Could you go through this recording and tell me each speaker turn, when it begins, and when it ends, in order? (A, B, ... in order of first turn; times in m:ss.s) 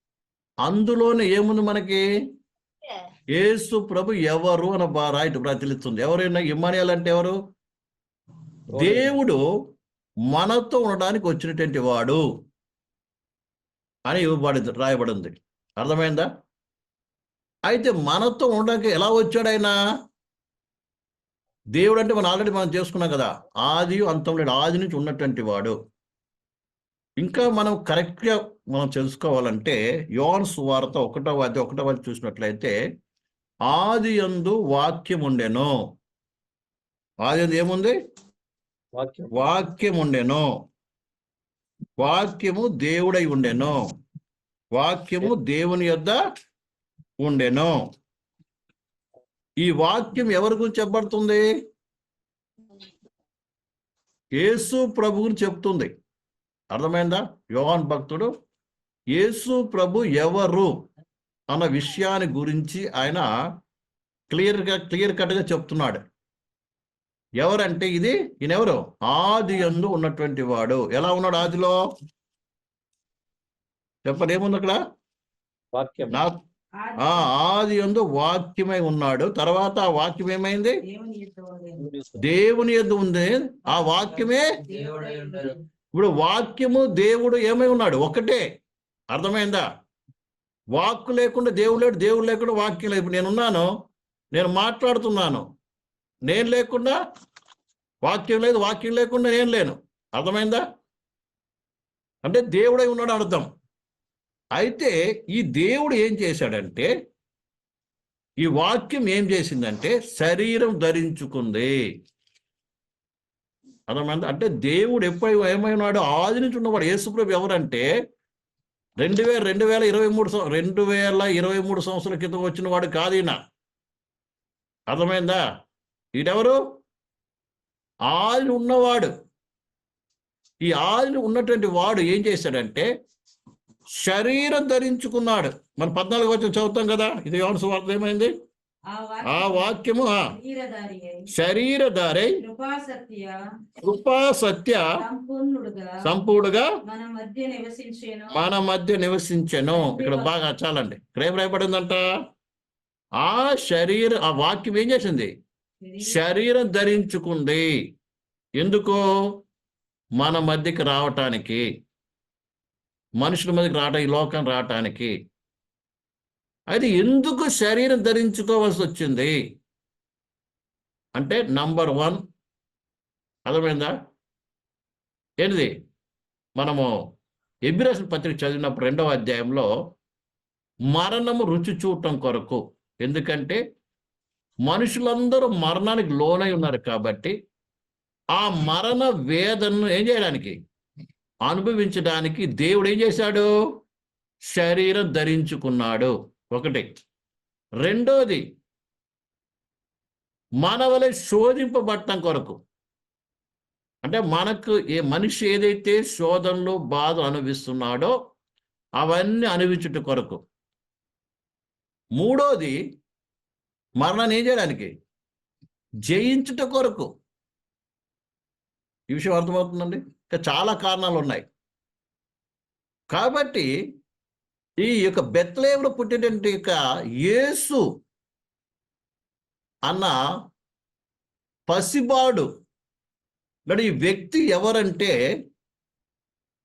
0:00.6-0:02.0 A
0:03.3-0:07.4 A
0:08.8-0:09.1 B
0:08.8-0:09.4 A
0:10.3-0:12.2 A
0:14.1-0:16.3 A
0:17.7-0:19.8 A
0:21.8-0:25.8 A
0:27.2-0:32.8 A
0:33.7-0:35.7 A
0:37.2-0:37.9 A
0:39.0-0:39.5 B
0:39.4-0:40.5 A
0:42.0-0:43.8 A
0:44.8-0:46.2 A
0:47.2-0:47.8 A
0:49.6-0:51.5 A
0:54.4-0:55.9 A
0:56.7-0:58.3 A
0:59.1-1:00.7 A
1:01.5-1:03.3 A
1:04.3-1:06.0 A
1:07.4-1:11.8 A
1:14.1-1:14.8 A
1:15.7-1:16.2 B
1:16.1-1:16.4 A
1:16.8-1:17.3 C
1:17.0-1:20.8 A
1:20.8-1:21.9 C
1:21.8-1:22.3 B
1:22.2-1:24.6 A
1:24.2-1:25.6 C
1:24.7-1:25.4 B
1:25.9-1:28.4 A
1:29.1-1:29.6 A
1:30.8-1:33.7 A
1:34.3-1:35.5 A
1:36.3-1:37.0 A
1:38.0-1:40.6 A
1:42.2-1:43.5 A
1:44.6-1:46.9 A
1:48.4-1:51.7 A
1:53.9-1:57.9 A
1:59.0-2:03.4 A
2:04.9-2:05.4 A
2:06.2-2:06.6 A
2:08.1-2:09.1 A
2:10.6-2:12.9 A
2:14.0-2:18.3 A
2:18.9-2:21.3 C
2:19.3-2:20.3 A
2:21.3-2:22.4 A
2:22.4-2:23.4 C
2:23.8-2:24.8 A
2:25.0-2:26.0 C
2:26.0-2:26.7 A
2:26.8-2:28.4 C
2:28.3-2:32.1 A
2:29.7-2:30.3 C
2:33.2-2:35.3 A
2:35.8-2:36.1 C
2:36.0-2:37.7 A
2:38.6-2:39.0 A
2:40.2-2:41.6 A
2:43.2-2:45.1 A
2:46.7-2:49.4 A
2:51.2-2:52.2 A
2:53.5-2:53.9 A
2:55.4-2:55.7 A
2:56.6-2:56.9 A
2:57.7-2:59.7 A
3:00.9-3:03.6 A
3:04.7-3:07.4 A
3:08.4-3:10.6 A
3:11.5-3:13.5 A
3:14.5-3:16.9 A
3:17.8-3:18.4 A
3:20.6-3:22.6 A
3:24.0-3:28.2 A
3:29.0-3:30.4 A
3:32.2-3:32.8 A
3:34.0-3:34.9 A
3:36.1-3:37.1 A
3:39.1-3:41.5 A
3:43.1-3:43.7 A
3:44.8-3:47.8 A
3:49.9-3:50.2 A
3:51.7-3:52.5 A
3:53.7-3:55.2 A